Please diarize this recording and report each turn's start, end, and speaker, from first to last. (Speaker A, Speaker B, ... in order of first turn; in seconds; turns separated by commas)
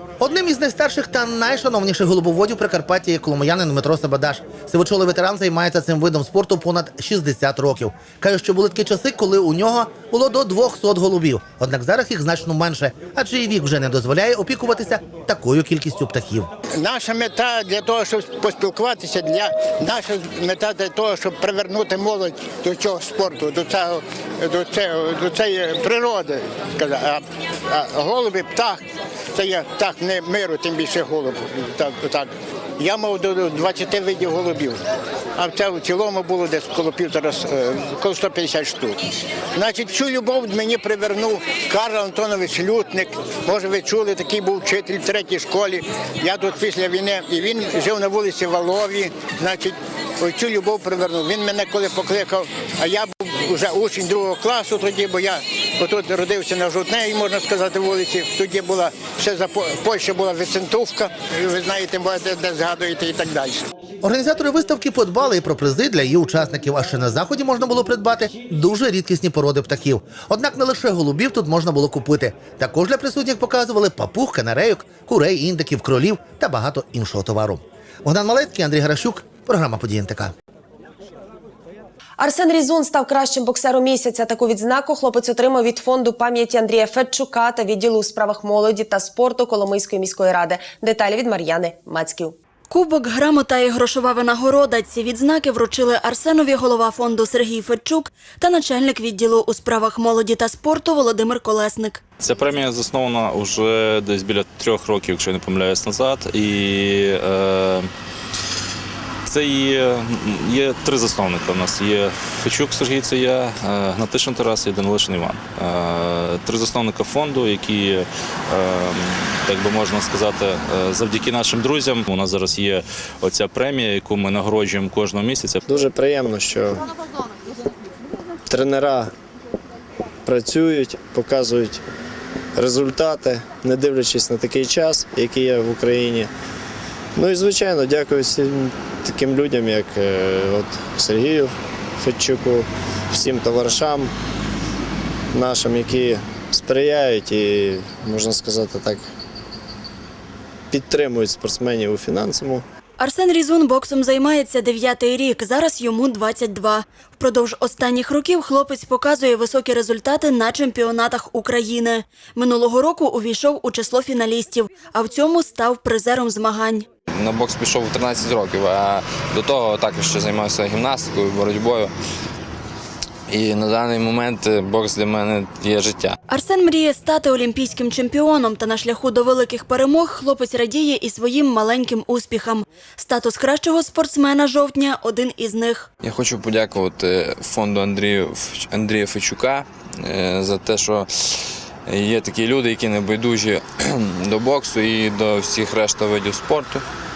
Speaker A: 0.2-16.5, Speaker B: 16.7-28.8, Speaker B: 29.3-34.8, Speaker B: 35.4-39.0, Speaker B: 39.5-63.7, Speaker A: 64.0-80.3, Speaker C: 82.2-92.3, Speaker D: 92.7-102.0, Speaker E: 102.2-107.9, Speaker E: 109.2-125.6, Speaker F: 125.7-126.8, Speaker F: 128.5-129.1, Speaker F: 130.2-131.8, Speaker F: 132.6-136.3, Speaker F: 137.1-144.1, Speaker F: 145.3-149.1, Speaker F: 150.7-152.6, Speaker D: 153.0-166.9, Speaker G: 167.1-171.9, Speaker G: 173.3-176.1, Speaker D: 176.3-185.9, Speaker G: 186.0-191.1, Speaker G: 191.9-193.6, Speaker G: 194.2-196.8